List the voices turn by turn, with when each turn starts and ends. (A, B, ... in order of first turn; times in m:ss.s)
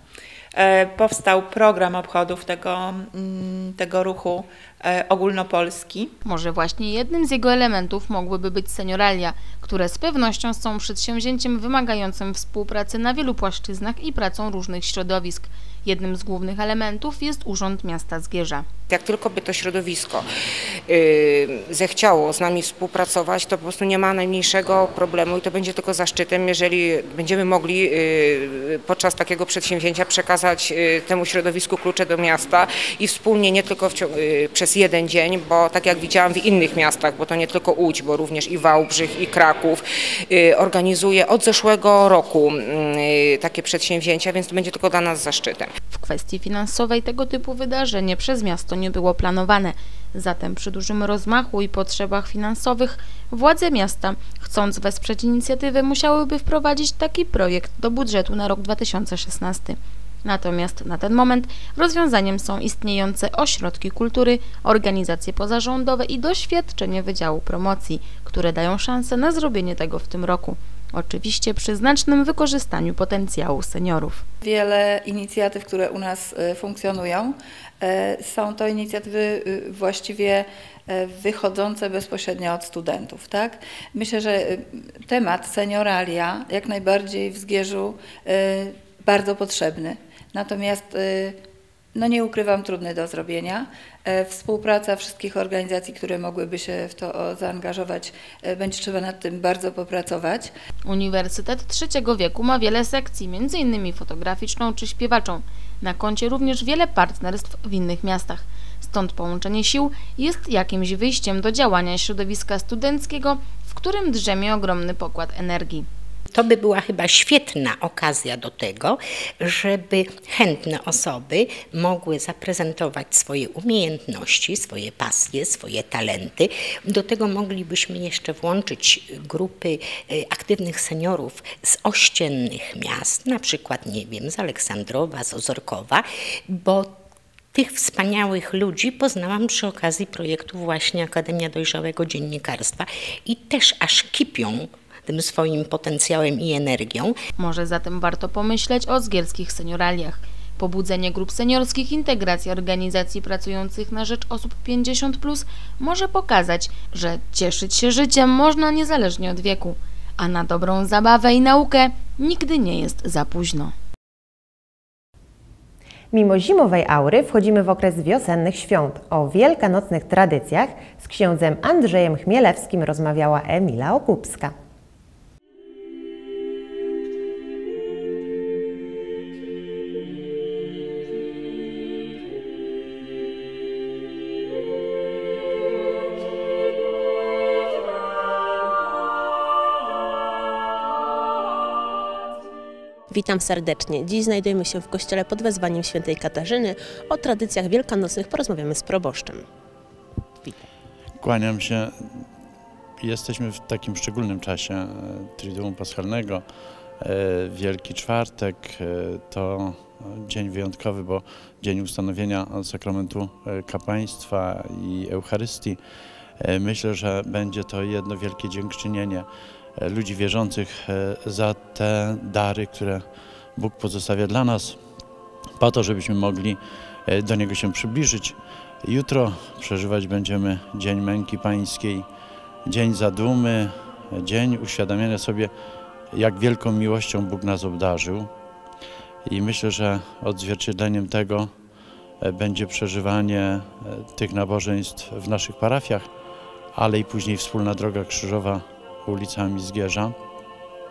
0:00.5-0:06.1 A
0:06.2-0:18.6 B
0:18.9-0:20.3 C
0:20.9-0:45.7 C
0:45.9-1:14.2 B
1:14.4-1:31.4 D
1:31.9-1:40.5 D
1:40.8-1:55.9 B
1:56.3-2:17.0 E
2:17.5-2:27.2 E
2:27.4-2:43.7 B
2:46.1-2:54.5 F
3:13.1-3:19.4 G
3:21.2-3:22.2 H
3:23.0-3:26.4 H
3:27.0-3:35.8 H
3:36.4-3:39.3 H
3:39.8-3:43.0 H
3:43.6-3:44.8 H
3:45.6-3:52.0 H
3:52.7-3:55.5 H
3:56.1-3:58.3 H
3:59.3-4:01.5 H
4:02.2-4:06.1 H
4:06.7-4:10.1 H